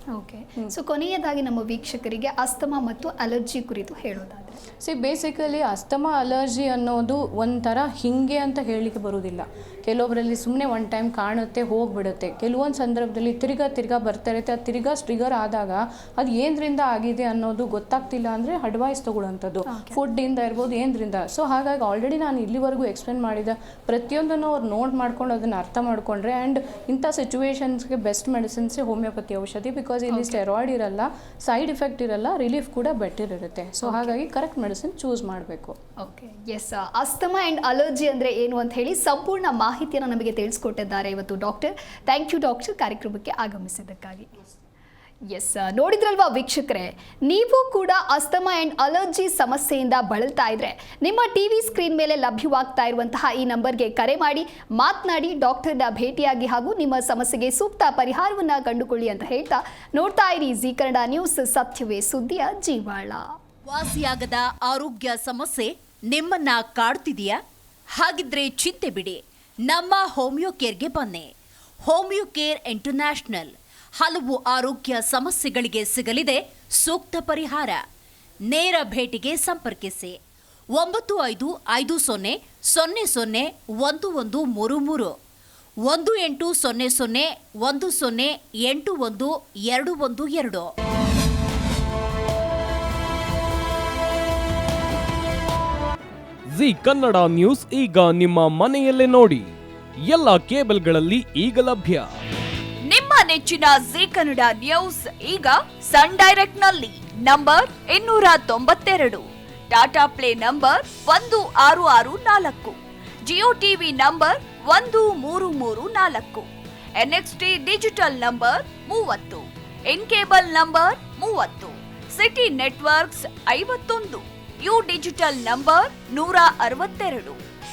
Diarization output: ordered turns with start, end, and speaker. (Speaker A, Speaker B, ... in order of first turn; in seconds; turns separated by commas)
Speaker A: 0.1-4.6, Speaker B: 4.8-35.8, Speaker A: 19.7-20.0, Speaker A: 30.1-30.4, Speaker A: 33.8-34.1, Speaker A: 36.0-44.3, Speaker A: 45.3-63.4, Speaker C: 63.7-67.4, Speaker C: 67.9-71.3, Speaker C: 71.8-77.8, Speaker C: 78.5-80.2, Speaker C: 80.7-85.2, Speaker C: 85.8-90.7, Speaker D: 96.5-99.5, Speaker D: 100.0-102.1, Speaker E: 102.8-127.4